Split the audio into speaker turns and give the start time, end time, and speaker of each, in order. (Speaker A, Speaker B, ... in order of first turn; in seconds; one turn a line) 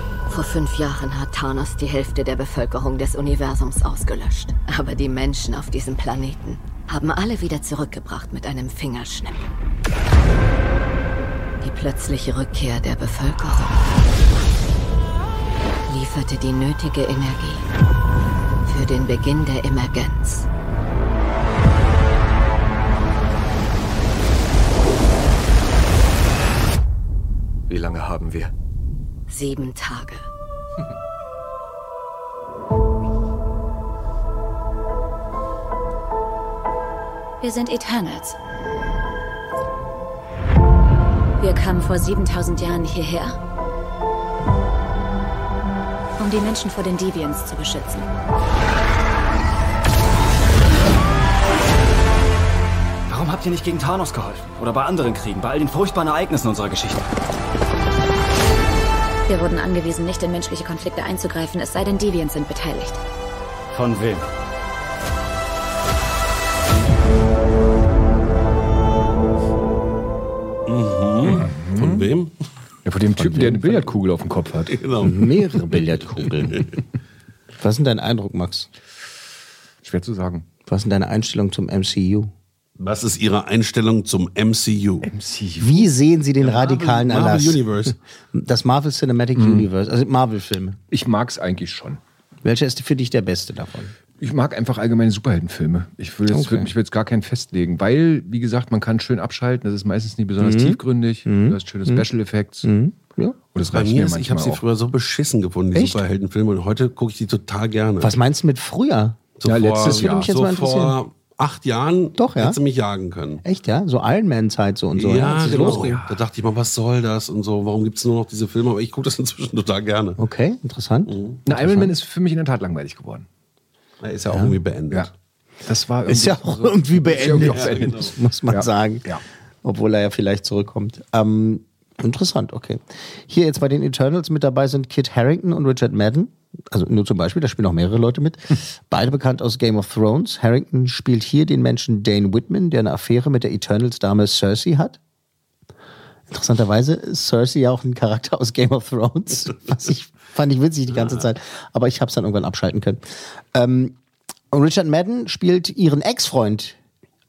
Speaker A: 0.3-9.5
Speaker A: 11.6-14.0
Speaker A: 15.9-17.7
Speaker A: 18.7-20.5
Speaker B: 27.7-28.5
Speaker A: 29.3-30.2
Speaker C: 37.4-38.3
Speaker D: 53.1-57.1
Speaker C: 59.3-63.0
Speaker D: 63.7-64.3
Speaker E: 70.7-72.3
Speaker B: 71.2-72.1
Speaker B: 72.8-74.9
Speaker F: 73.2-73.7
Speaker E: 74.7-75.7
Speaker F: 75.0-76.7
Speaker F: 77.6-78.7
Speaker B: 79.8-80.5
Speaker F: 80.7-82.3
Speaker E: 82.8-85.1
Speaker B: 85.0-85.9
Speaker F: 85.6-87.7
Speaker E: 86.4-88.0
Speaker F: 88.3-90.8
Speaker B: 89.4-89.7
Speaker B: 90.9-92.0
Speaker F: 92.4-93.9
Speaker B: 94.2-102.7
Speaker F: 96.3-96.7
Speaker F: 100.4-102.1
Speaker F: 102.6-103.4
Speaker B: 103.5-104.6
Speaker E: 103.7-108.2
Speaker F: 108.0-109.2
Speaker E: 109.4-113.4
Speaker B: 109.5-110.3
Speaker F: 109.8-111.0
Speaker F: 112.2-112.6
Speaker F: 113.4-116.0
Speaker E: 115.0-120.2
Speaker B: 115.2-116.2
Speaker F: 120.2-121.9
Speaker E: 121.1-121.4
Speaker B: 121.5-123.3
Speaker E: 124.0-125.1
Speaker F: 124.3-124.5
Speaker B: 125.7-129.2
Speaker F: 126.1-129.1
Speaker E: 127.3-128.1
Speaker F: 129.6-145.0
Speaker F: 146.3-153.0
Speaker F: 153.5-153.9
Speaker F: 154.5-156.8